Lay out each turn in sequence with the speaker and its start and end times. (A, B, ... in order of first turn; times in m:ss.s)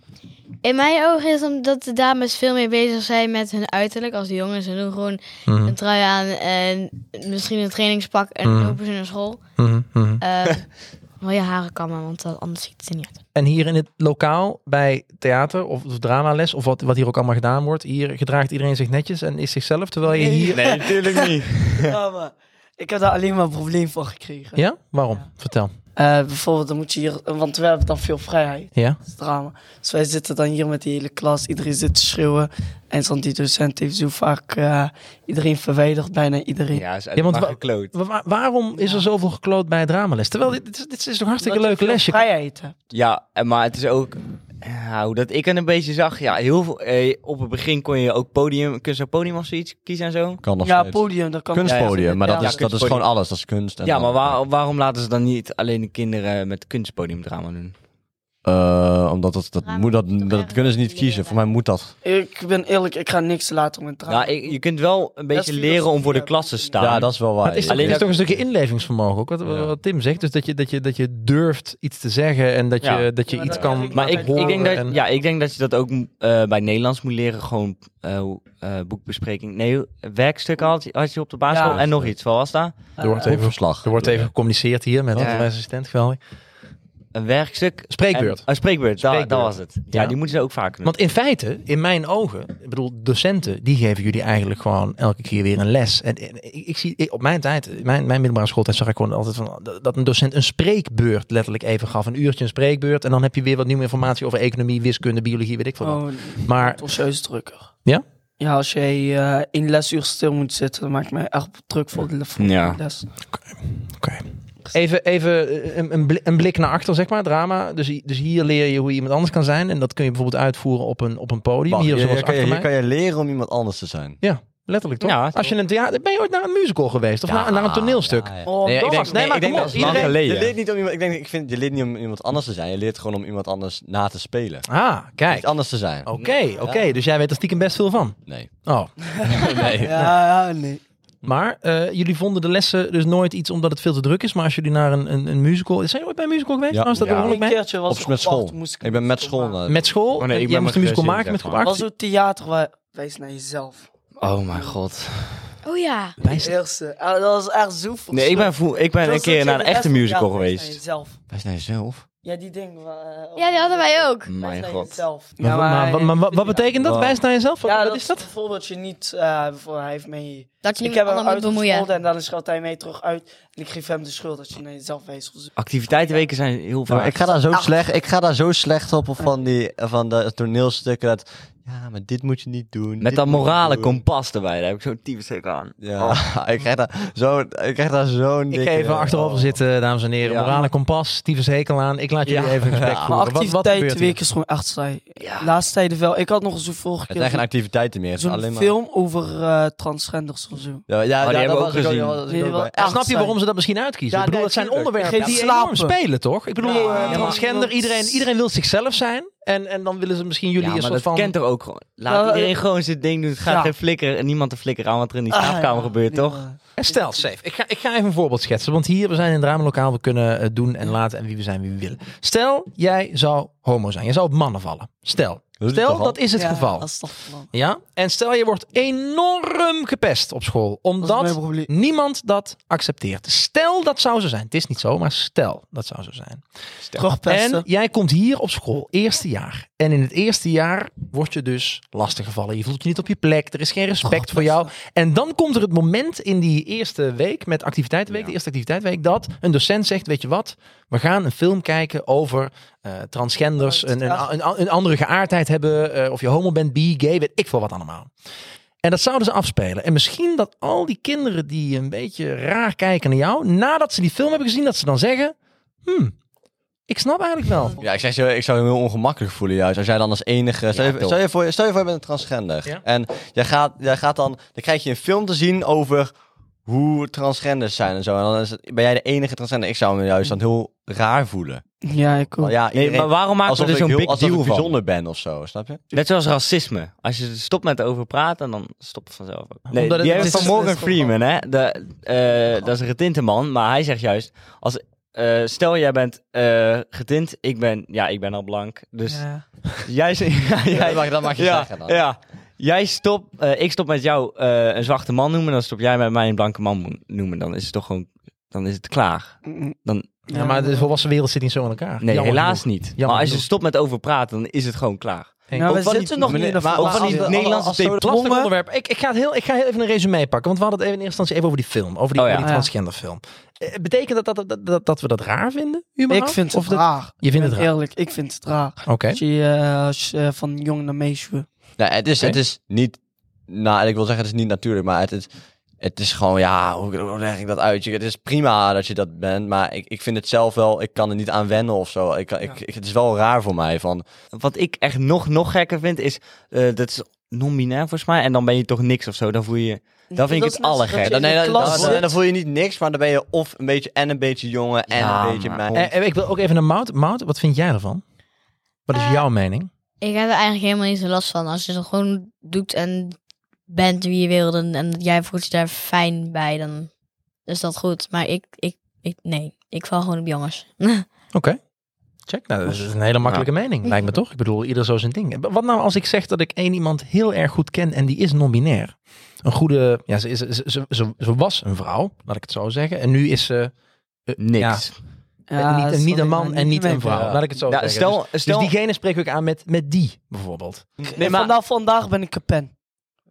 0:00.6-0:09.4 A
0:05.5-0:05.8 B
0:08.4-0:08.8 B
0:09.6-0:10.2 B
0:10.2-0:10.7 A
0:11.2-0:13.2 A
0:13.4-0:20.7 B
0:20.1-0:24.6 C
0:20.5-0:22.0 D
0:24.6-0:25.7 B
0:26.0-0:36.8 C
0:28.8-0:29.0 B
0:36.7-0:38.0 D
0:37.2-0:42.2 B
0:38.7-0:39.1 C
0:41.4-0:42.8 C
0:42.9-0:50.4 D
0:50.4-0:54.4 E
0:50.6-0:52.6 C
0:51.6-0:53.1 D
0:53.8-0:57.8 D
0:58.4-1:01.9 E
0:59.6-1:01.6 A
1:02.0-1:04.6 C
1:04.1-1:07.1 D
1:05.3-1:06.9 C
1:06.8-1:08.4 E
1:07.4-1:15.0 B
1:07.7-1:08.2 D
1:12.8-1:22.8 D
1:13.3-1:15.1 C
1:21.5-1:21.8 C
1:21.6-1:22.2 E
1:23.0-1:23.3 C
1:23.0-1:26.2 B
1:23.2-1:24.3 E
1:25.2-1:25.5 D
1:27.2-1:30.9 D
1:27.9-1:28.4 B
1:29.0-1:30.2 B
1:30.8-1:46.8 B
1:45.8-1:47.7 C
1:48.4-1:53.1 C
1:52.4-1:52.8 D
1:53.3-2:02.7 B
2:01.7-2:04.2 E
2:04.2-2:10.2 B
2:05.0-2:05.5 D
2:07.3-2:08.1 D
2:08.0-2:14.7 E
2:08.5-2:09.1 C
2:08.8-2:10.5 D
2:14.7-2:20.1 B
2:15.3-2:16.9 E
2:19.1-2:20.1 E
2:19.8-2:20.8 C
2:21.2-2:27.6 B
2:26.7-2:29.9 E
2:26.9-2:29.6 C
2:29.7-2:31.9 B
2:30.2-2:31.7 D
2:31.6-2:33.9 C
2:34.2-2:35.6 D
2:35.6-2:36.2 A
2:36.2-2:36.6 B
2:36.2-2:41.2 C
2:38.1-2:40.8 D
2:41.3-2:42.0 E
2:42.2-2:46.7 C
2:43.4-2:44.3 A
2:44.3-2:45.0 D
2:45.4-2:48.3 B
2:46.8-2:47.2 D
2:47.6-2:56.2 C
2:50.6-2:51.9 A
2:55.6-2:57.4 D
2:56.9-3:04.0 E
3:03.0-3:06.2 D
3:05.8-3:09.6 E
3:08.5-3:14.2 B
3:10.2-3:10.5 D
3:12.2-3:12.6 D
3:12.7-3:13.2 E
3:13.1-3:17.5 C
3:15.2-3:15.5 D
3:17.1-3:18.8 E
3:18.2-3:20.8 C
3:20.9-3:23.1 E
3:21.2-3:22.2 D
3:22.3-3:23.4 C
3:22.8-3:31.3 B
3:24.1-3:25.4 E
3:25.0-3:26.0 C
3:26.6-3:28.3 C
3:26.9-3:27.4 D
3:30.6-3:36.4 D
3:32.1-3:32.6 C
3:33.4-3:33.7 C
3:35.3-3:37.2 C
3:36.8-3:46.9 B
3:45.6-3:46.2 E
3:46.4-3:47.5 C
3:47.5-3:56.4 B
3:51.0-3:51.7 C
3:57.0-3:57.7 C
3:57.3-4:18.1 B
4:04.1-4:04.7 C
4:13.6-4:14.3 C
4:18.8-4:26.2 B
4:26.9-4:27.8 B
4:27.8-4:36.1 E
4:30.7-4:31.2 D
4:36.7-4:41.6 E
4:41.8-4:42.6 C
4:42.4-4:45.9 E
4:42.7-4:44.8 D
4:45.9-5:10.3 D
4:49.7-4:50.9 B
4:50.0-4:51.1 C
4:59.1-4:59.4 C
5:00.7-5:02.0 E
5:09.4-5:09.8 C
5:10.3-5:10.9 C
5:10.3-5:13.5 B
5:12.0-5:16.1 D
5:15.5-5:16.3 B
5:15.5-5:17.4 C
5:16.2-5:18.0 E
5:16.7-5:18.0 D
5:18.0-5:27.7 B
5:18.0-5:18.5 C
5:22.2-5:22.5 D
5:22.4-5:22.7 C
5:26.1-5:31.5 C
5:28.9-5:29.2 B
5:31.8-5:35.3 E
5:35.8-5:44.0 E
5:44.3-5:52.0 D
5:50.1-5:52.2 C
5:51.0-5:55.9 E
5:54.9-5:55.7 D
5:55.7-5:58.0 B
5:58.9-5:59.7 B
5:58.9-5:59.3 A
6:00.0-6:03.2 A
6:03.7-6:06.9 A
6:07.5-6:11.1 A
6:11.3-6:11.6 B
6:12.3-6:23.7 B
6:24.3-6:24.9 B
6:24.4-6:24.9 D
6:25.5-6:27.2 C
6:25.6-6:30.9 B
6:27.1-6:28.7 D
6:31.0-6:31.5 D
6:31.0-6:32.7 C